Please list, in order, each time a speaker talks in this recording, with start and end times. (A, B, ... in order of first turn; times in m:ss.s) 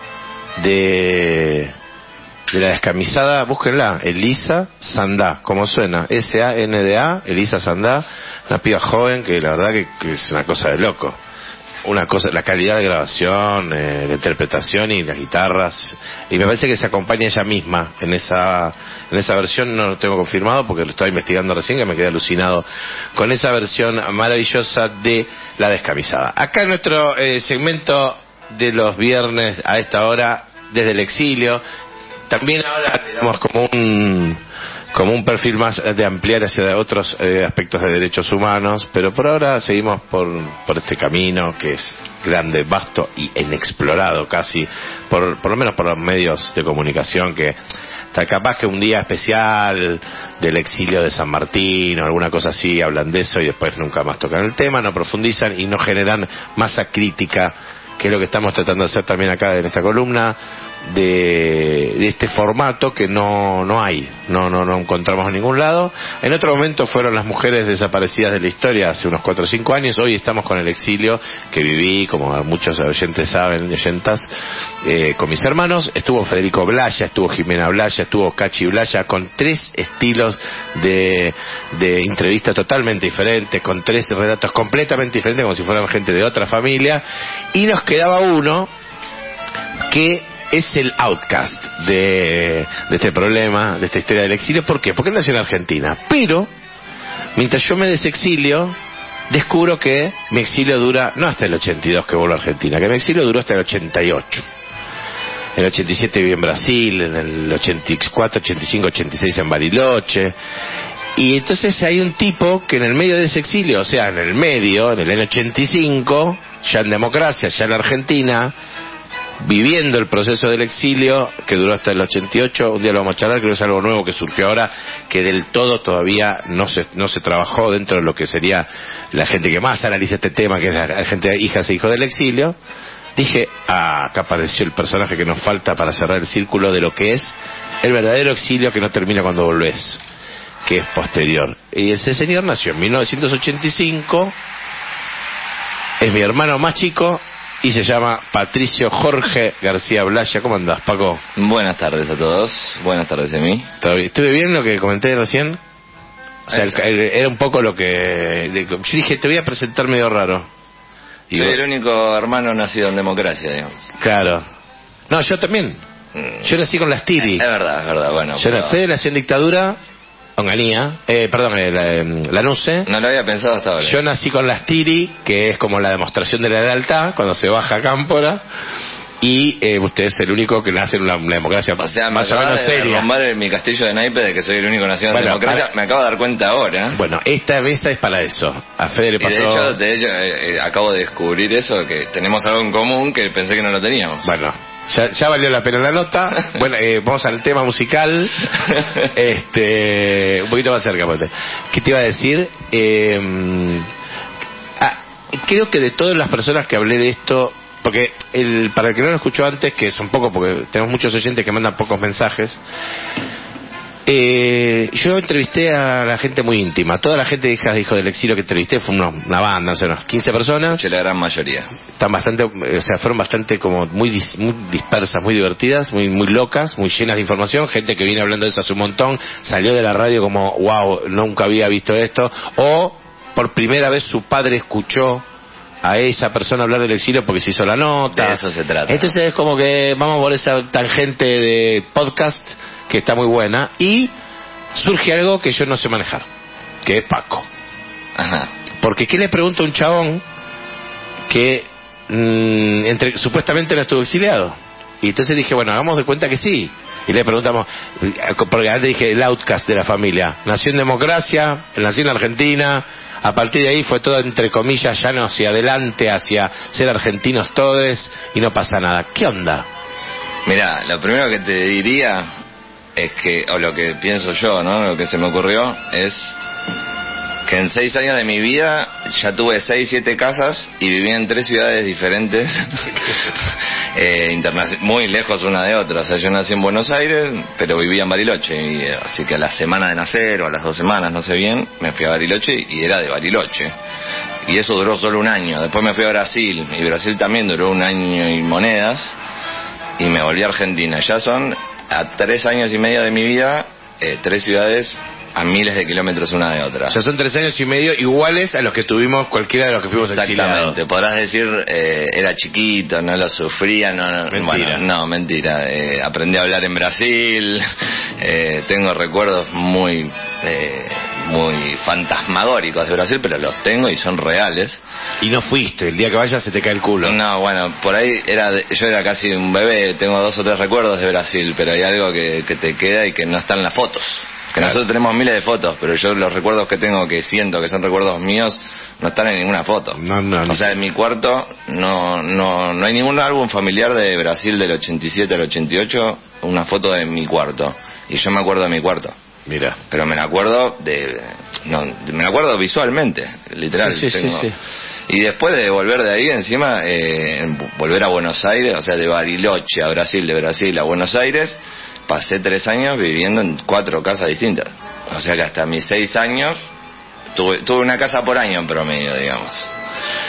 0:00.6-0:01.8 A
0:02.5-0:11.2 A
0:11.8-0:31.6 A
0:32.3-0:34.4 A
0:34.9-0:47.6 A
0:48.1-1:14.3 A
1:14.8-1:28.7 A
1:29.9-1:36.5 A
1:37.4-1:38.8 A
1:39.3-1:44.5 A
1:45.6-1:50.4 A
1:51.2-1:58.5 A
1:59.4-2:12.6 A
2:13.2-2:20.0 A
2:20.6-2:24.3 A
2:26.0-2:31.2 A
2:31.4-2:33.7 B
2:33.8-2:35.6 A
2:36.5-2:36.8 B
2:36.5-2:40.5 A
2:41.3-2:41.6 A
2:41.3-2:43.8 B
2:44.0-2:44.4 A
2:45.1-2:45.8 A
2:46.2-2:46.5 B
2:46.4-2:47.4 A
2:47.2-2:48.8 B
2:48.4-2:49.8 A
2:50.4-2:52.9 A
2:52.9-2:54.0 B
2:53.8-2:58.4 A
2:59.2-3:03.1 A
3:01.8-3:07.0 B
3:05.1-3:05.6 A
3:06.9-3:09.8 A
3:09.2-3:14.3 B
3:14.2-3:18.5 A
3:19.0-3:23.9 A
3:24.8-3:32.6 A
3:34.1-3:40.8 A
3:40.7-3:41.7 B
3:42.0-3:55.2 A
3:55.8-4:04.1 A
3:58.1-3:59.1 B
4:04.8-4:06.3 A
4:06.8-4:07.5 A
4:08.2-4:08.5 B
4:08.8-4:10.2 A
4:11.3-4:29.7 A
4:30.5-4:32.3 B
4:33.0-4:36.4 B
4:37.5-4:53.7 B
4:54.4-4:59.2 B
5:00.0-5:07.0 B
5:06.9-5:10.8 A
5:10.1-5:17.6 B
5:14.3-5:14.8 A
5:18.2-5:24.8 B
5:25.2-5:27.2 A
5:27.0-5:49.2 B
5:40.0-5:40.8 A
5:49.5-5:49.8 A
5:49.9-5:54.5 B
5:53.7-5:54.6 A
5:55.1-6:06.6 B
6:07.3-6:09.7 B